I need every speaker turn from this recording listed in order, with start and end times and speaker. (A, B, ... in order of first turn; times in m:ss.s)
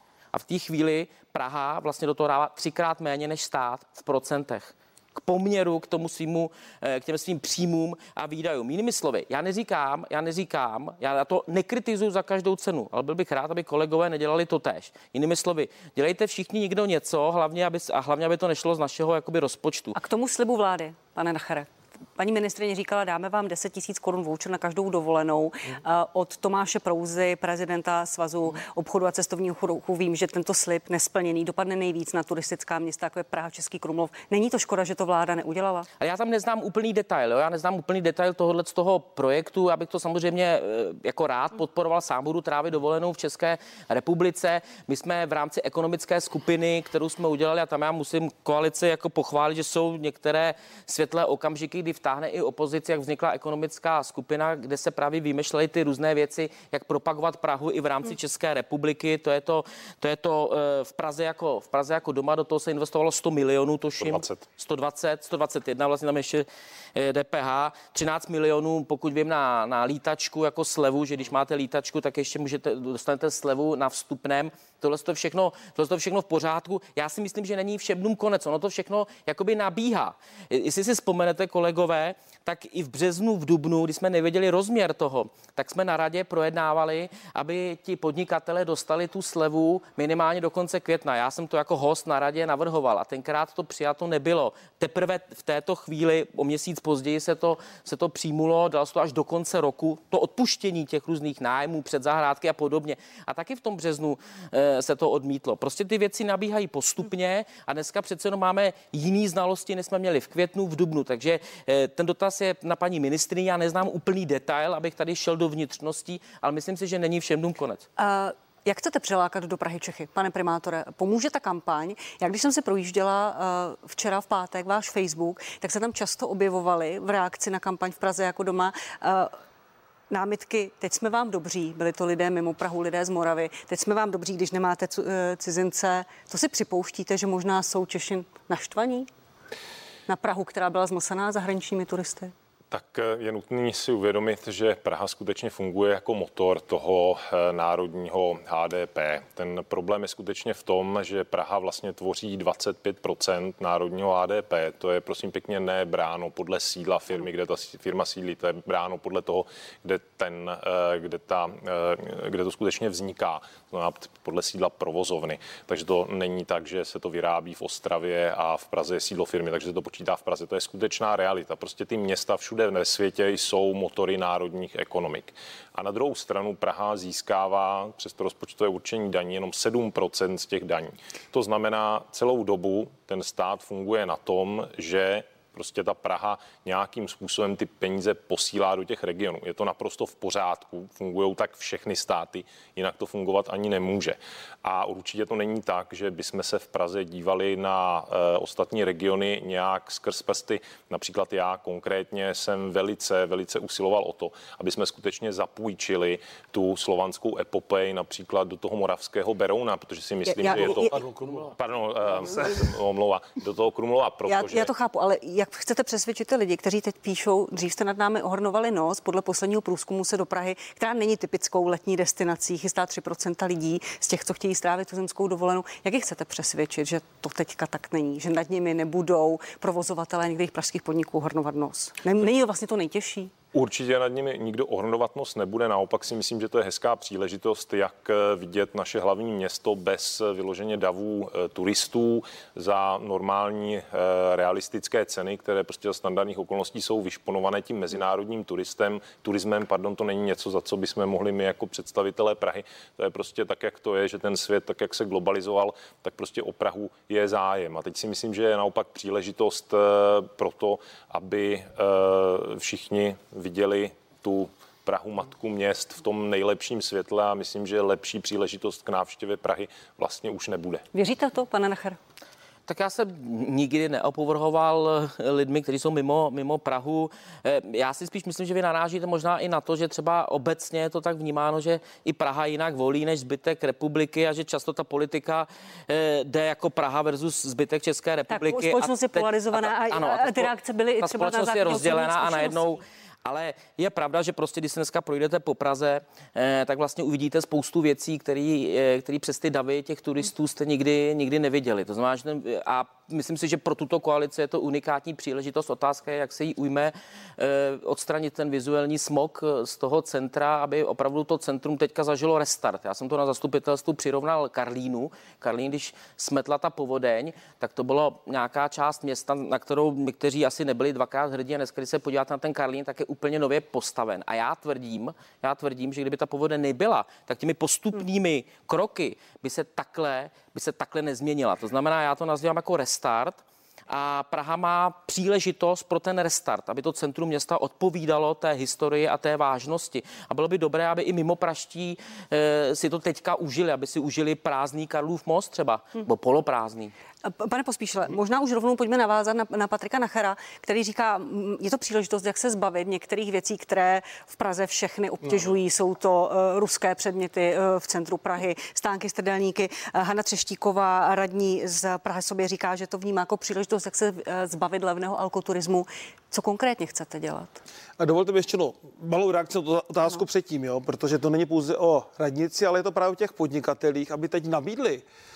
0:00.3-0:20.0 A
0:20.0-0:35.9 B
0:36.0-1:57.8 A
1:04.0-1:04.4 C
1:58.0-2:09.3 B
2:10.1-2:19.1 B
2:20.1-2:22.3 B
2:22.7-3:31.0 C
3:30.2-3:31.0 B
3:30.6-3:31.5 D
3:31.5-3:34.7 C
3:34.2-3:53.3 B
3:53.5-4:30.8 C
4:30.9-4:32.0 B
4:32.7-5:46.9 A
4:48.3-4:52.8 B
5:47.2-6:07.6 B
6:08.0-6:15.0 D